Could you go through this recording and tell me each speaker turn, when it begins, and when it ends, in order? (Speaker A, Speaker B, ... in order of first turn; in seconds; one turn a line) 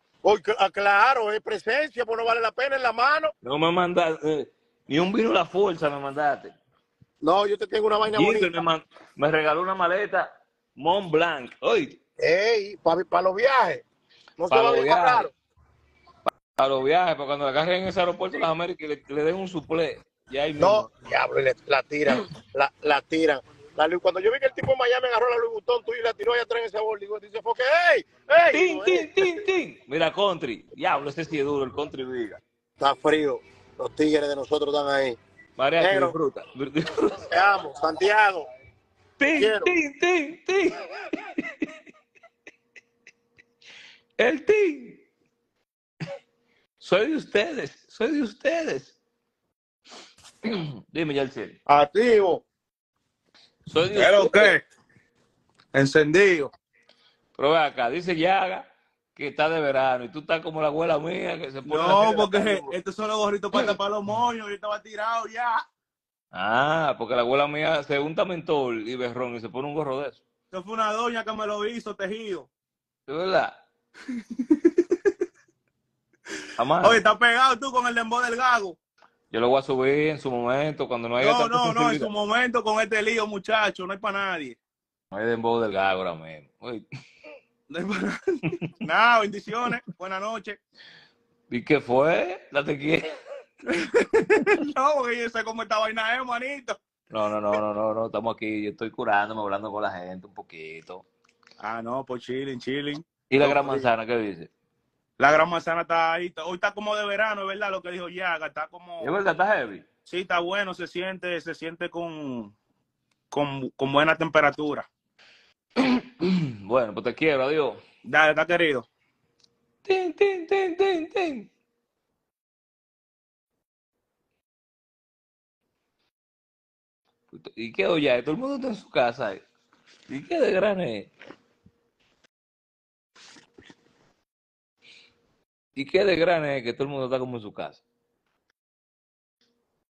Speaker A: 0.2-3.3
Speaker B: 3.4-6.5
Speaker A: 7.2-8.5
Speaker B: 8.1-12.0
Speaker A: 12.2-13.8
Speaker A: 14.4-15.3
Speaker B: 14.5-15.3
Speaker B: 16.6-20.9
Speaker A: 20.6-29.4
Speaker B: 28.5-32.4
Speaker A: 32.8-35.2
Speaker B: 35.6-37.3
Speaker A: 35.8-36.1
Speaker A: 37.3-38.5
Speaker B: 39.2-41.7
Speaker A: 39.4-39.7
Speaker B: 44.2-45.0
Speaker B: 46.8-49.0
Speaker B: 50.4-51.6
Speaker C: 51.7-52.4
Speaker B: 53.7-54.5
Speaker C: 53.9-54.6
Speaker C: 55.7-56.5
Speaker B: 57.4-62.7
Speaker C: 61.7-65.6
Speaker B: 66.3-70.2
Speaker C: 70.5-72.5
Speaker B: 73.1-73.6
Speaker C: 74.4-74.8
Speaker B: 76.6-77.0
Speaker C: 76.8-78.8
Speaker B: 79.3-82.1
Speaker C: 81.2-84.6
Speaker B: 85.1-86.9
Speaker C: 87.7-90.6
Speaker B: 91.5-93.1
Speaker C: 93.7-96.8
Speaker B: 97.1-101.0
Speaker C: 101.6-103.9
Speaker B: 103.3-104.5
Speaker C: 105.2-109.2
Speaker B: 109.0-109.8
Speaker C: 110.1-112.5
Speaker C: 113.3-114.9
Speaker B: 115.8-117.8
Speaker C: 118.1-118.9
Speaker B: 119.8-121.5
Speaker B: 127.3-129.4
Speaker B: 130.1-131.1
Speaker B: 135.8-137.8